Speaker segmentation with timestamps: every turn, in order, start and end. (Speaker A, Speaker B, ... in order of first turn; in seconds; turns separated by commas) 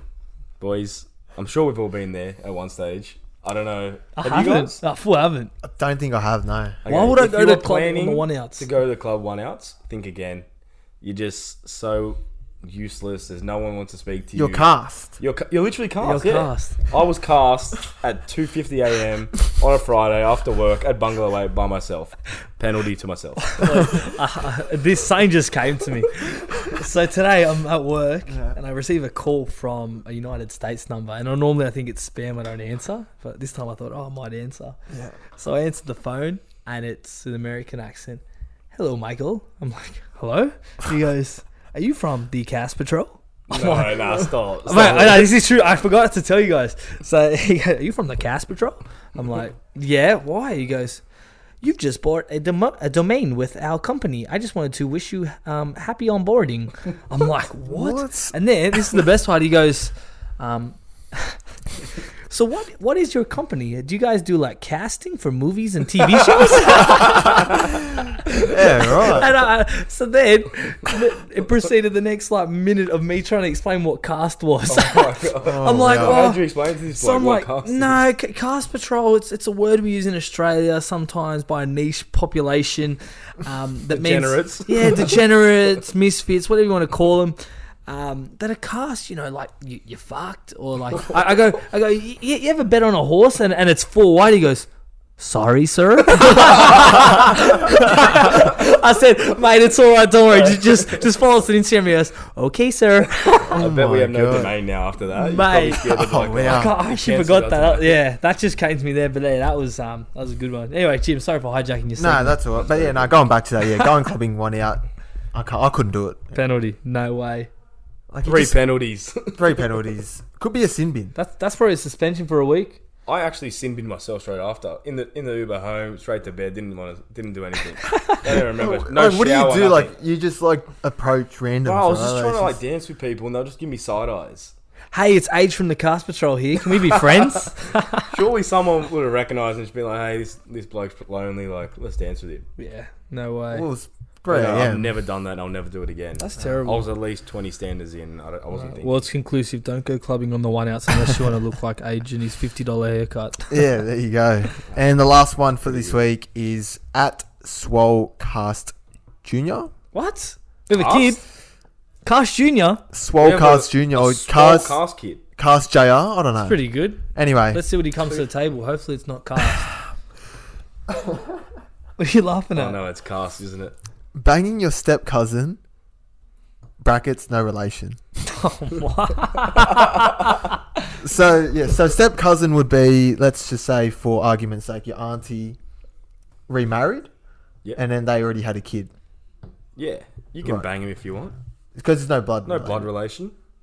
Speaker A: 0.6-4.8, Speaker B: 4.2-5.5, Speaker C: 5.6-6.8, Speaker A: 6.8-10.4, Speaker B: 6.8-8.7, Speaker A: 11.0-14.7, Speaker C: 14.3-15.2, Speaker A: 15.2-23.6, Speaker B: 16.0-16.8, Speaker B: 23.5-34.8, Speaker C: 28.3-28.6, Speaker C: 34.9-35.1, Speaker B: 35.4-38.2, Speaker B: 38.7-51.0, Speaker A: 43.5-45.3, Speaker B: 51.6-61.4, Speaker C: 57.7-58.4, Speaker B: 62.3-103.6, Speaker C: 68.3-69.3, Speaker A: 74.7-78.0, Speaker C: 75.4-76.3, Speaker A: 83.9-85.2, Speaker A: 103.5-108.0, Speaker C: 103.5-104.5, Speaker B: 105.2-112.4, Speaker C: 105.8-106.7, Speaker C: 112.0-114.8, Speaker A: 112.5-113.1, Speaker C: 115.3-116.3, Speaker B: 116.3-117.5, Speaker C: 118.1-118.6, Speaker A: 118.2-119.7, Speaker C: 119.3-121.1, Speaker B: 121.1-122.8, Speaker A: 123.0-129.9, Speaker B: 127.8-128.2, Speaker C: 128.6-132.6, Speaker A: 131.6-134.5, Speaker B: 134.9-138.1, Speaker A: 137.1-142.4, Speaker B: 142.6-143.7, Speaker C: 143.5-144.9, Speaker A: 144.3-149.0, Speaker B: 146.2-146.9, Speaker B: 148.6-153.5, Speaker C: 153.5-159.7, Speaker A: 155.7-155.9, Speaker B: 159.9-161.2, Speaker A: 160.8-161.2, Speaker B: 162.0-162.8, Speaker C: 162.9-164.8, Speaker A: 163.2-165.2, Speaker C: 165.4-167.6, Speaker B: 166.4-169.7, Speaker C: 170.9-171.2, Speaker B: 172.0-172.8, Speaker A: 172.5-173.7, Speaker C: 174.1-175.6, Speaker C: 176.8-178.0, Speaker B: 178.2-180.5, Speaker C: 181.0-185.6, Speaker C: 186.5-187.1, Speaker C: 187.8-188.9, Speaker A: 189.8-191.3, Speaker C: 191.8-192.9, Speaker A: 192.4-193.3